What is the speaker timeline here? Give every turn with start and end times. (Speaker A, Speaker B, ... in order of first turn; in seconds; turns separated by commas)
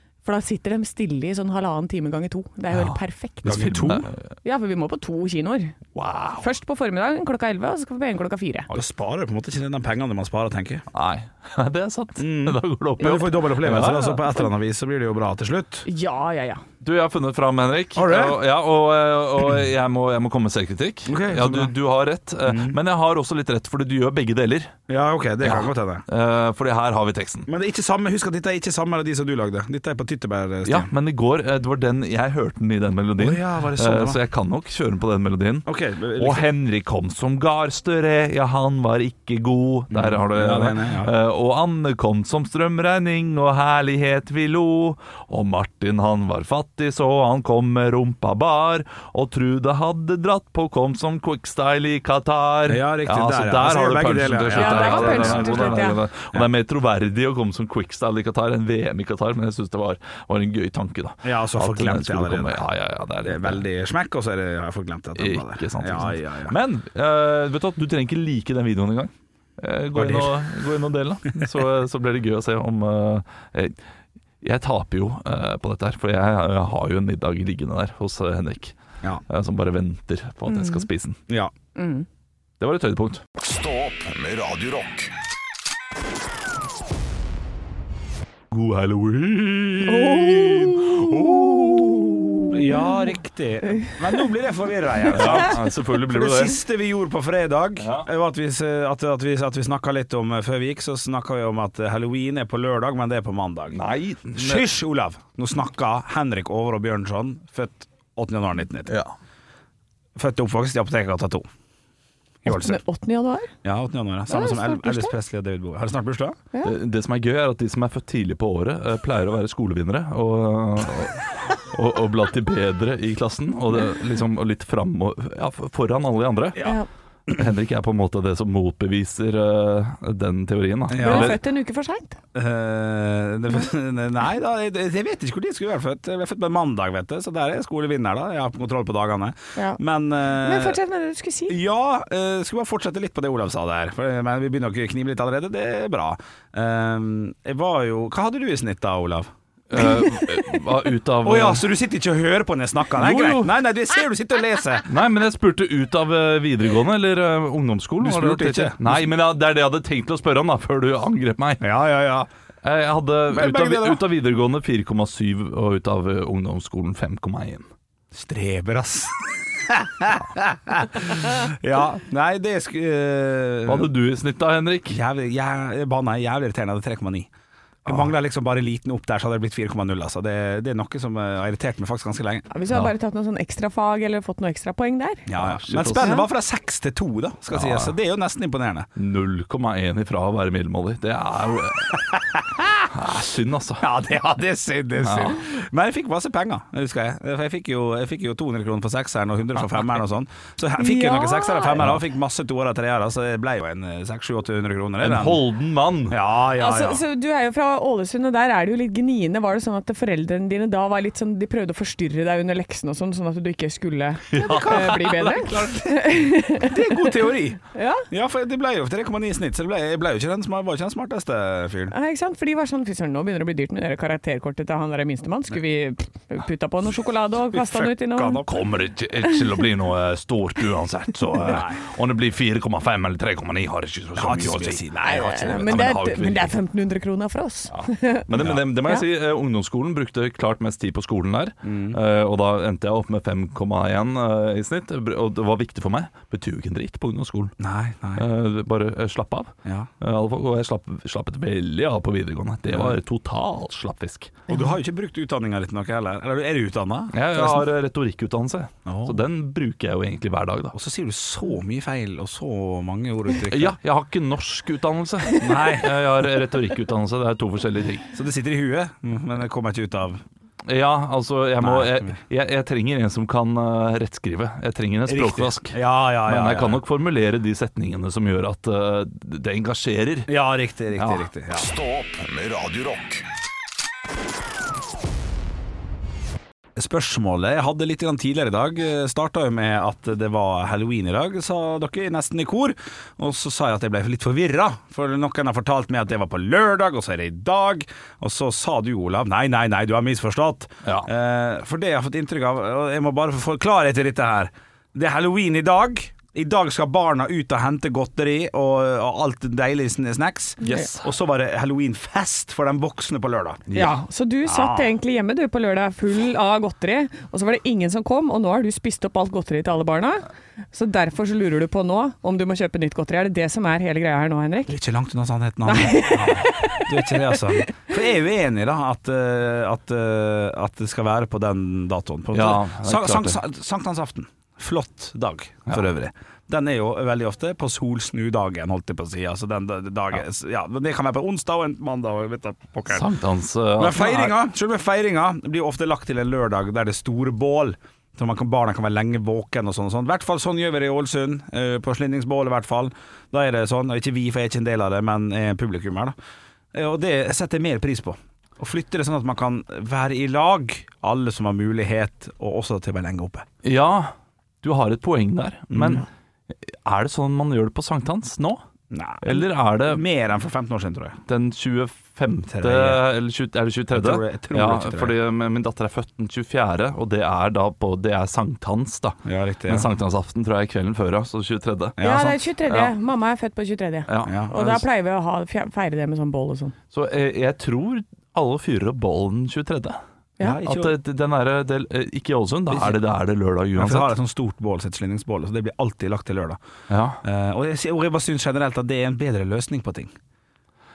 Speaker A: 0.2-3.8, Speaker B: 2.7-4.2, Speaker C: 3.4-4.1, Speaker A: 4.4-5.8, Speaker B: 6.0-6.5, Speaker A: 6.4-8.7, Speaker C: 8.7-10.8, Speaker B: 10.9-14.3, Speaker C: 12.2-15.9, Speaker A: 15.9-16.6, Speaker B: 16.8-24.7, Speaker C: 17.9-18.4, Speaker C: 21.1-21.8, Speaker C: 22.5-22.8, Speaker C: 24.9-26.0, Speaker B: 25.4-27.5, Speaker C: 27.5-30.9, Speaker B: 30.6-63.6, Speaker C: 33.2-34.2, Speaker C: 35.7-36.5, Speaker C: 39.9-41.1, Speaker C: 52.7-56.5, Speaker A: 54.5-56.0, Speaker C: 61.2-62.6, Speaker C: 63.2-66.6, Speaker B: 65.2-73.8, Speaker C: 70.0-70.3, Speaker B: 74.4-78.8, Speaker B: 79.3-81.2, Speaker A: 80.5-80.9, Speaker A: 81.8-82.1, Speaker B: 82.6-83.2, Speaker D: 83.4-85.1, Speaker B: 88.5-92.5, Speaker A: 89.8-93.1, Speaker C: 92.5-103.8, Speaker A: 93.7-94.0, Speaker B: 95.1-96.6, Speaker B: 97.8-98.1, Speaker B: 103.7-104.7, Speaker C: 104.3-108.9, Speaker B: 108.9-109.1, Speaker C: 110.2-111.5, Speaker C: 112.5-112.8, Speaker A: 112.5-113.5, Speaker C: 113.6-116.4, Speaker A: 114.3-115.1, Speaker B: 116.6-126.7, Speaker A: 126.6-126.9, Speaker B: 127.3-131.4, Speaker C: 130.9-131.4, Speaker A: 131.0-132.2, Speaker C: 132.3-140.8, Speaker A: 140.4-141.6, Speaker C: 141.5-149.9, Speaker B: 149.7-151.7, Speaker C: 151.2-154.9, Speaker B: 153.0-153.6, Speaker B: 154.8-161.7, Speaker C: 158.0-159.1, Speaker C: 161.6-162.3, Speaker B: 162.6-167.7, Speaker C: 163.3-164.0, Speaker C: 168.1-173.9, Speaker B: 173.7-175.0, Speaker C: 174.9-177.3, Speaker C: 177.8-182.5, Speaker A: 182.5-185.3, Speaker C: 185.3-188.9, Speaker B: 185.4-186.1, Speaker A: 185.9-186.3, Speaker B: 187.5-187.9, Speaker B: 189.0-192.1, Speaker C: 192.1-192.8, Speaker B: 192.9-193.9, Speaker C: 193.8-205.4, Speaker B: 195.0-195.4, Speaker A: 200.8-201.8, Speaker B: 205.0-206.2, Speaker C: 206.1-207.0, Speaker A: 206.6-217.1, Speaker B: 214.3-215.8, Speaker C: 214.4-215.8, Speaker C: 216.6-221.9, Speaker A: 217.7-218.1, Speaker A: 221.9-228.4, Speaker C: 227.5-228.5, Speaker B: 228.4-236.6, Speaker C: 231.4-231.8, Speaker C: 234.2-235.8, Speaker A: 235.0-238.3, Speaker B: 237.7-247.5, Speaker C: 241.6-242.0, Speaker C: 247.6-248.3, Speaker B: 248.2-254.4, Speaker C: 249.7-249.9, Speaker C: 252.7-253.0, Speaker C: 254.5-257.7, Speaker B: 257.1-260.8, Speaker C: 258.9-259.2, Speaker C: 260.7-263.8, Speaker B: 263.5-268.1, Speaker C: 265.4-266.0, Speaker C: 268.1-270.2, Speaker B: 270.7-280.3, Speaker C: 271.6-272.1, Speaker C: 275.1-276.8, Speaker C: 280.3-281.7, Speaker B: 281.0-281.3, Speaker D: 281.5-283.2, Speaker C: 286.8-313.7, Speaker B: 300.8-301.1, Speaker B: 310.6-311.1, Speaker B: 313.7-314.0, Speaker A: 313.7-324.8, Speaker C: 314.5-314.9, Speaker C: 324.7-343.1, Speaker A: 325.6-327.7, Speaker B: 332.3-333.4, Speaker B: 342.9-344.4, Speaker C: 343.8-356.1, Speaker C: 356.7-363.5, Speaker B: 363.6-368.6, Speaker C: 365.7-366.1, Speaker C: 368.9-371.2, Speaker B: 369.2-370.0, Speaker B: 371.3-382.0, Speaker C: 372.5-373.1, Speaker C: 373.9-375.2, Speaker C: 379.2-379.9, Speaker C: 382.0-382.4, Speaker A: 382.0-386.8, Speaker B: 382.7-382.9, Speaker B: 384.1-384.8, Speaker C: 384.2-384.8, Speaker B: 386.9-390.0, Speaker C: 390.4-390.9, Speaker B: 390.6-394.1, Speaker C: 392.7-393.0, Speaker C: 393.8-396.6, Speaker B: 396.9-397.2, Speaker C: 397.2-400.1